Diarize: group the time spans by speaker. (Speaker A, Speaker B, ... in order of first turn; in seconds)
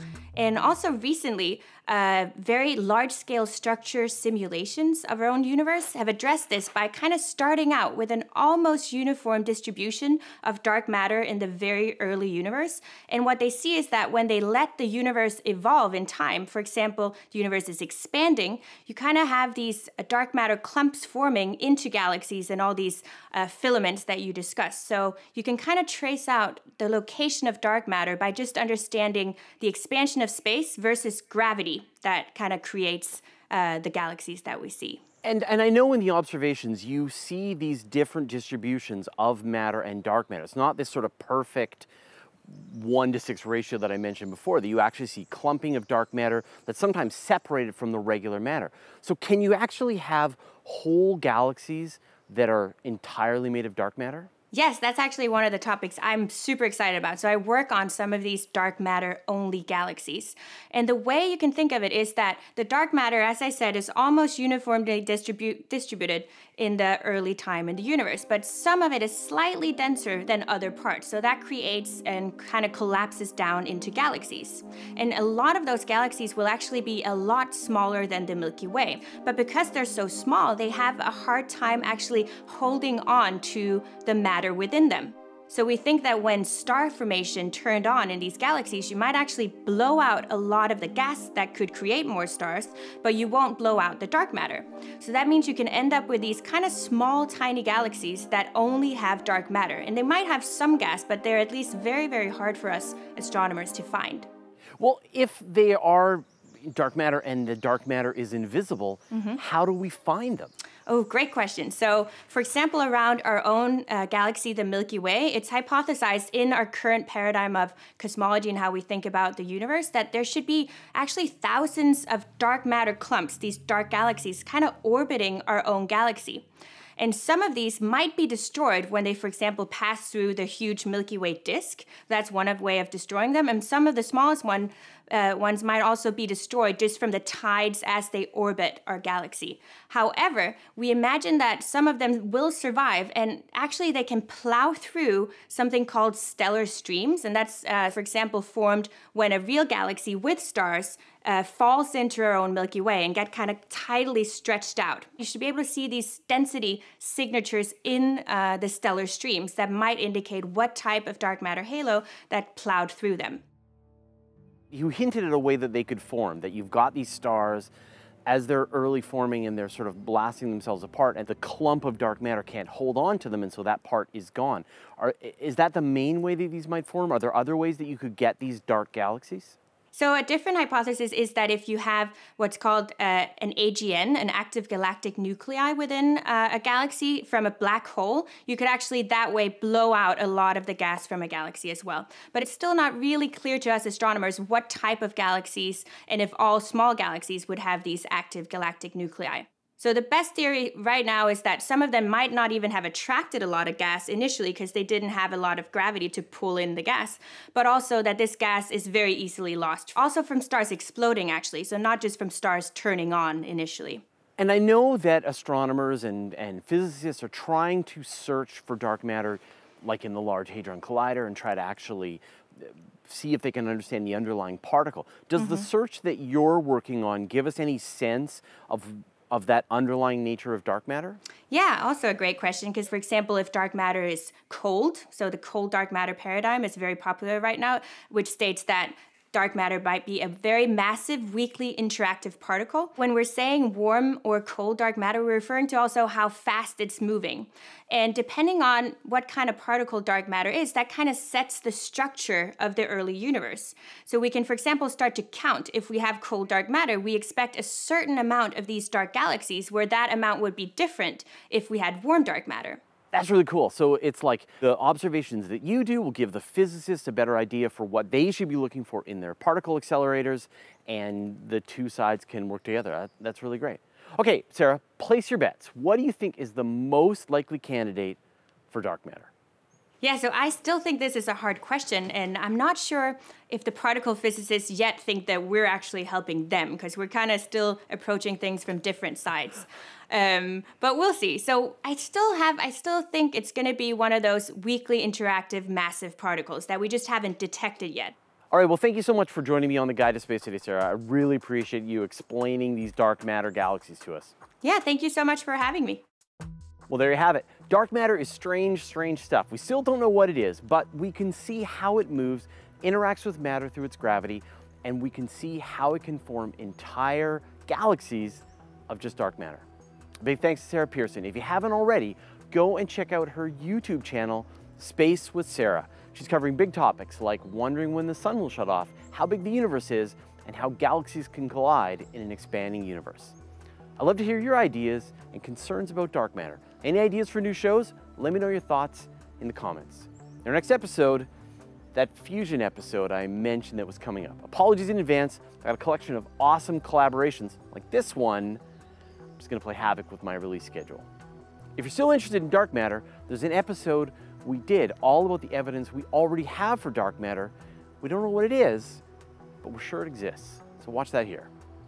Speaker A: 0.4-35.0, 54.5-104.3, 109.1-109.4, 110.9-163.4, 179.9-214.0, 225.4-225.7, 231.5-262.8, 280.0-298.1, 304.6-306.0
Speaker B: 35.2-41.9, 42.5-54.3, 104.8-110.5, 164.7-167.7, 168.3-179.6, 214.4-231.2, 263.1-278.2, 278.7-279.3, 298.5-304.3, 306.9-319.7, 320.2-333.4, 334.0-341.3, 341.9-348.6, 349.4-351.1, 351.8-359.0, 359.6-361.5